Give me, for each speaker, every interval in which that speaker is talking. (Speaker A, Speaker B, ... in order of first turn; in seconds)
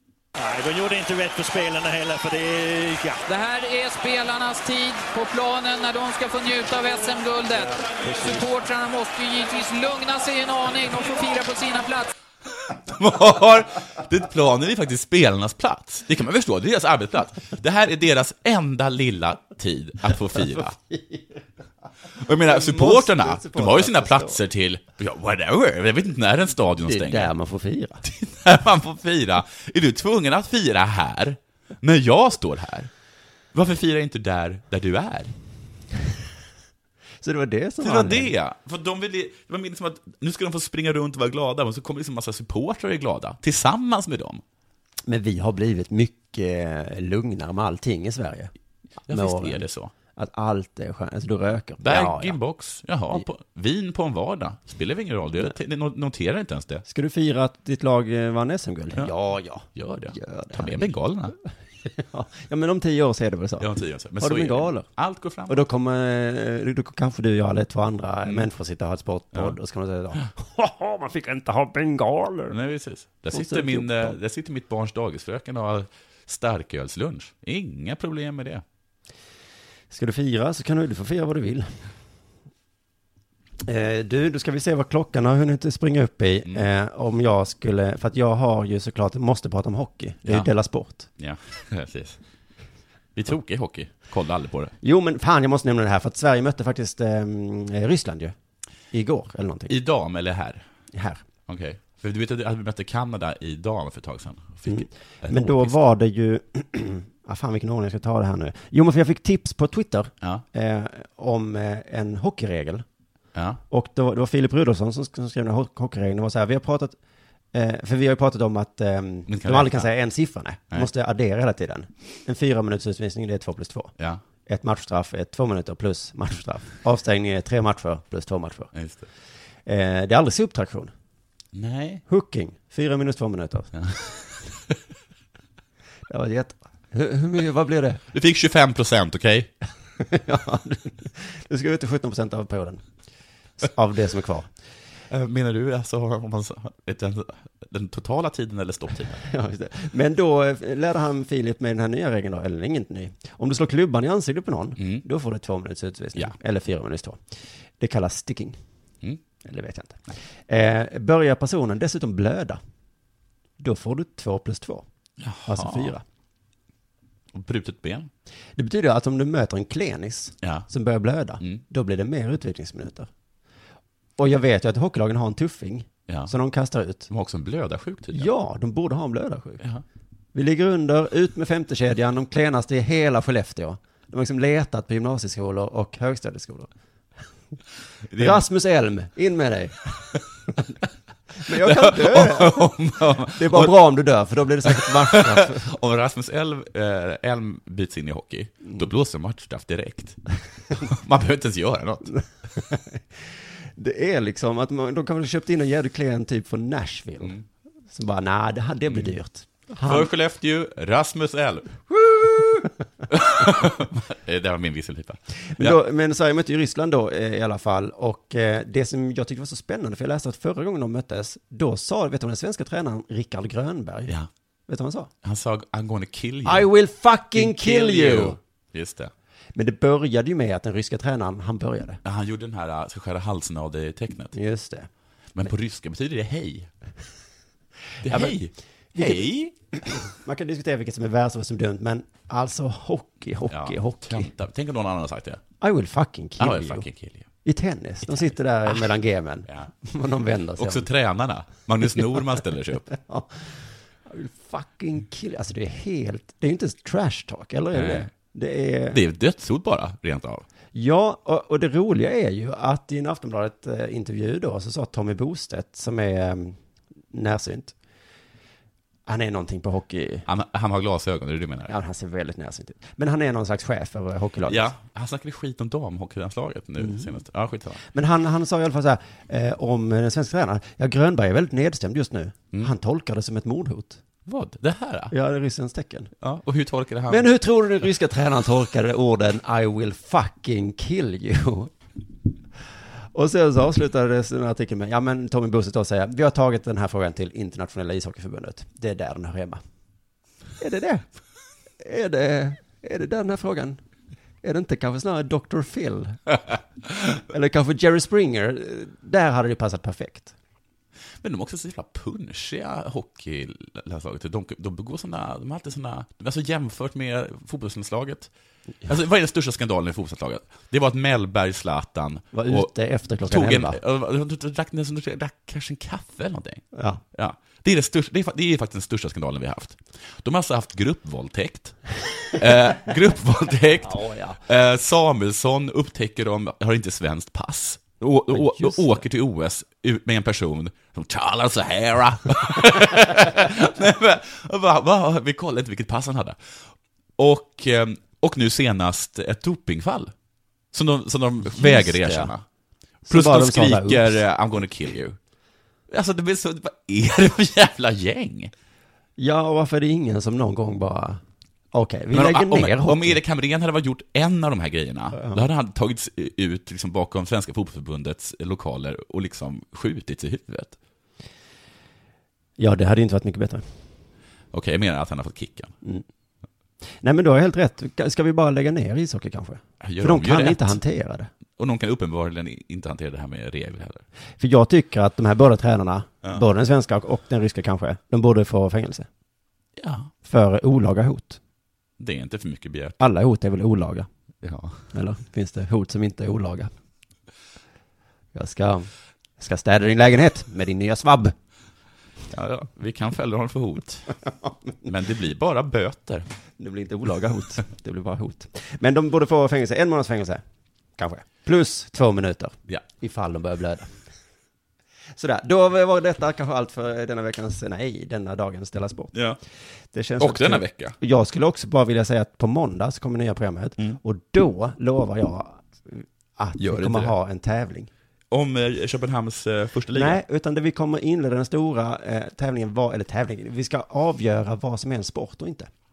Speaker A: 0.4-3.2, 8.0-8.4
Speaker B: 3.3-12.1
Speaker C: 12.7-20.8, 22.1-27.3, 28.0-32.9, 33.5-35.3, 37.8-44.4, 49.1-49.9, 51.8-56.9, 59.6-61.4, 63.6-65.6, 72.5-78.6, 91.2-92.2, 93.1-94.7, 99.7-100.7, 101.5-105.8, 113.3-113.6, 119.3-119.9, 128.7-129.1, 131.5-132.0, 133.8-134.7, 138.1-139.5, 145.1-149.2, 154.8-155.0, 165.2-166.0, 167.3-168.1, 170.4-170.7, 176.1-176.3, 177.1-178.3, 188.1-188.4, 191.5-193.8, 194.6-202.1, 208.9-209.2, 209.8-211.7, 213.1-215.8, 225.2-226.7, 227.3-229.1, 232.0-234.4, 235.3-236.7, 238.0-239.5, 243.5-245.4, 246.4-247.3, 248.1-248.8, 250.6-252.9, 257.7-258.1, 258.9-260.4, 270.2-271.7, 274.5-277.8, 284.2-285.1, 286.2-287.3, 311.2-318.3, 318.9-322.7, 323.2-331.8, 332.4-346.4, 347.2-350.1, 350.7-352.4, 353.1-355.2, 355.9-358.5, 362.1-370.8, 374.5-375.7, 379.8-380.8, 381.6-384.0, 389.8-390.1, 392.0-393.0, 394.4-394.9, 402.3-404.2, 404.9-406.2, 419.1-419.4, 420.2-420.9, 426.6-427.1, 428.3-430.2
Speaker D: 20.5-21.4, 22.4-24.4, 26.9-28.0, 37.2-38.3, 45.1-48.5, 49.1-49.6, 50.1-52.4, 56.9-60.9, 61.9-64.9, 65.5-72.6, 73.3-74.2, 79.9-81.8, 83.6-91.1, 94.8-98.3, 98.9-99.7, 100.9-101.2, 104.7-112.8, 113.7-117.0, 117.5-123.9, 124.5-128.7, 129.7-130.9, 132.1-133.7, 136.1-138.0, 140.0-142.8, 143.6-144.5, 149.2-157.2, 157.8-158.6, 159.4-162.6, 163.6-164.9, 165.4-166.0, 168.6-173.1, 174.2-177.1, 178.1-179.6, 180.3-186.7, 188.2-190.7, 191.4-195.7, 202.1-203.0, 203.8-207.4, 207.9-210.1, 211.9-212.7, 215.5-224.1, 224.7-225.1, 226.4-228.4, 229.5-232.0, 234.3-234.9, 238.1-238.3, 239.8-244.3, 245.6-246.9, 247.4-250.9, 253.0-259.0, 260.7-266.6, 267.1-267.7, 269.1-270.2, 271.7-274.7, 276.8-277.1, 277.9-284.0, 285.1-286.1, 287.1-291.7, 293.1-299.6, 300.6-301.1, 301.8-303.8, 304.4-306.2, 307.3-310.3, 322.3-323.8, 326.7-327.0, 333.8-334.4, 338.3-339.0, 351.5-352.3, 353.1-354.2, 359.2-361.2, 361.7-363.2, 365.1-365.4, 372.6-373.6, 377.0-381.3, 384.4-389.1, 390.2-391.4, 393.0-394.1, 394.9-396.7, 398.4-401.4, 406.6-410.4, 411.0-413.9, 415.1-419.1, 419.9-427.9, 429.9-435.7